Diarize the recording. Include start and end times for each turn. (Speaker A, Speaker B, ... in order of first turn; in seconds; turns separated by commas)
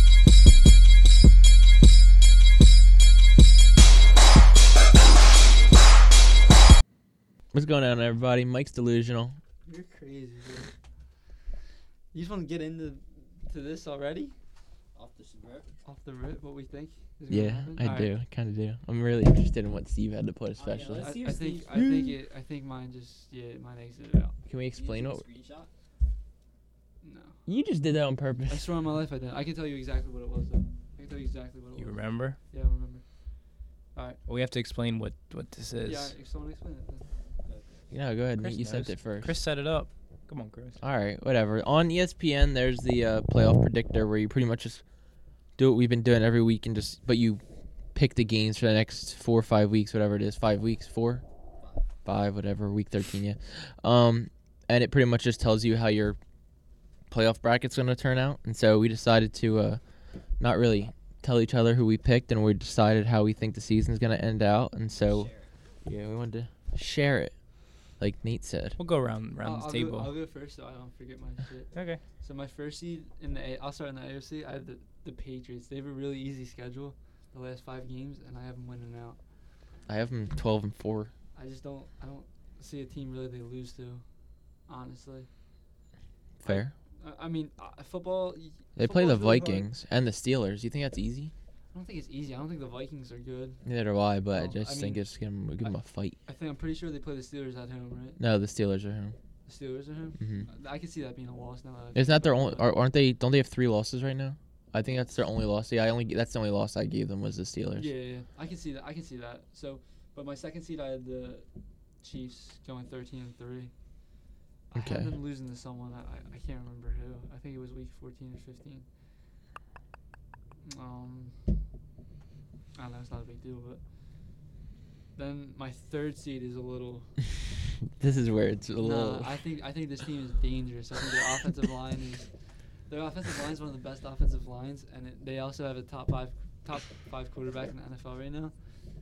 Speaker A: 7.5-9.4, Speaker B: 9.6-10.7, Speaker B: 12.1-14.3, Speaker C: 14.9-15.7, Speaker B: 15.8-18.1, Speaker A: 17.3-21.1, Speaker C: 20.6-21.8, Speaker B: 20.9-24.3, Speaker A: 21.7-22.2, Speaker A: 24.4-25.2, Speaker C: 24.7-25.7, Speaker B: 27.0-27.4, Speaker A: 27.4-28.7, Speaker B: 28.5-33.0, Speaker D: 31.8-32.4, Speaker B: 33.9-34.2, Speaker D: 34.3-36.1, Speaker B: 35.8-37.1, Speaker C: 37.4-37.8, Speaker A: 37.9-39.3, Speaker D: 38.4-40.8, Speaker A: 40.8-44.8, Speaker A: 45.6-47.4, Speaker A: 47.9-51.2, Speaker C: 51.6-51.9, Speaker A: 52.0-56.2, Speaker A: 57.1-59.8, Speaker A: 60.4-65.3, Speaker C: 64.9-65.5, Speaker A: 65.8-67.3, Speaker A: 68.0-68.8, Speaker D: 68.8-70.1, Speaker B: 69.4-79.2, Speaker D: 71.7-72.0, Speaker A: 79.9-81.1, Speaker B: 81.3-84.0, Speaker B: 84.7-85.3, Speaker A: 86.4-86.7, Speaker B: 86.4-89.7, Speaker A: 88.8-91.3, Speaker B: 91.7-93.6, Speaker A: 93.6-96.2, Speaker B: 94.3-95.0, Speaker B: 95.6-98.2, Speaker A: 98.2-99.1, Speaker B: 99.5-102.7, Speaker A: 100.2-100.5, Speaker A: 101.9-107.9, Speaker B: 107.8-111.5, Speaker B: 112.0-113.7, Speaker B: 114.7-118.9, Speaker A: 114.7-115.1, Speaker B: 120.6-121.4, Speaker B: 122.7-123.8, Speaker B: 125.1-127.2, Speaker A: 128.0-129.4, Speaker B: 128.8-138.6